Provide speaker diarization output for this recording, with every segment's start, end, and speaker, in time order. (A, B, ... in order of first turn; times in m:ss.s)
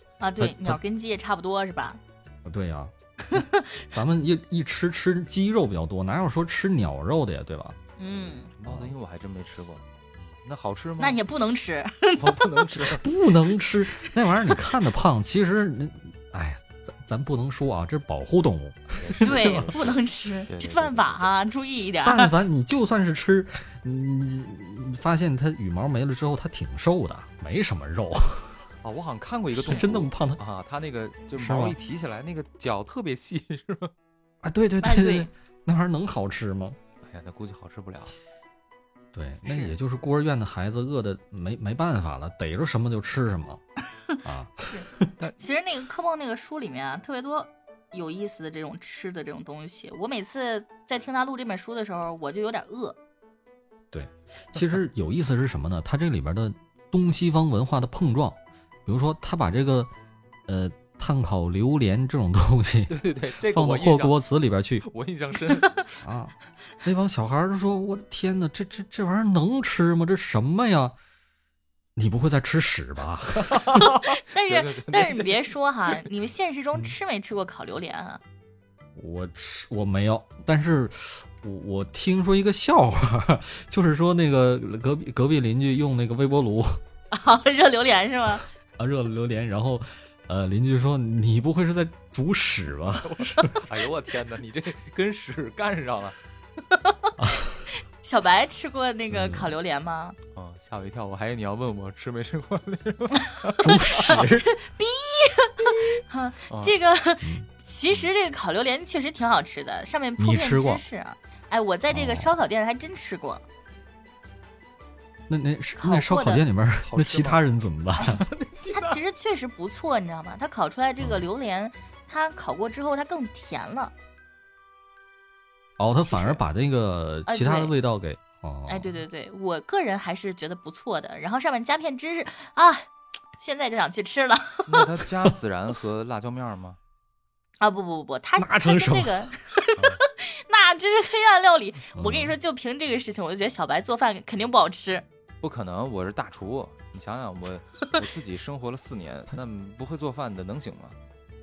0:00.2-0:02.0 A
0:00.4-0:00.8 B
0:02.4-0:07.8 B
0:03.3-0:03.8 A
0:08.0-0:08.5 A
0:08.5-0:11.2 C
0:08.6-0:08.9 B
0:11.0-0:12.6 A
0:12.2-0:13.0 C
0:12.8-0:19.7 B
0:19.0-0:21.3 C
0:19.2-0:22.3 A
0:22.0-0:28.6 B
0:28.8-0:33.9 C
0:29.6-0:30.4 B
0:31.4-0:31.8 B
0:34.4-0:36.8 B
0:34.8-0:35.3 A
0:37.0-0:38.1 C
0:39.1-0:43.6 B
0:39.5-0:39.7 A
0:44.2-0:45.1 B
0:44.7-0:53.0 A
0:53.9-0:59.9 B
1:00.5-1:04.8 B
1:02.9-1:04.1 C
1:04.8-1:05.8 C
1:06.0-1:10.9 B
1:12.0-1:13.9 B
1:13.5-1:16.0 C
1:13.7-1:18.2 A
1:19.0-1:26.8 B
1:27.1-1:28.4 A
1:28.8-1:33.6 B
1:33.0-1:36.2 C
1:36.7-1:37.2 A
1:37.2-1:37.6 B
1:37.7-1:40.2 A
1:39.1-1:39.5 B
1:40.3-1:44.2 C
1:43.2-1:43.6 A
1:43.6-1:44.5 B
1:44.1-1:53.4 A
1:46.5-1:46.7 C
1:50.2-1:50.8 B
1:51.9-1:52.3 B
1:55.3-1:58.2 B
1:55.8-1:56.4 A
1:56.8-1:57.4 C
1:58.0-1:59.0 C
1:58.7-2:03.9 A
2:05.8-2:09.0 B
2:06.1-2:06.4 A
2:07.3-2:07.7 A
2:08.7-2:15.0 A
2:14.7-2:16.8 C
2:17.6-2:25.0 A
2:18.4-2:19.3 B
2:22.0-2:22.4 B
2:25.4-2:31.0 C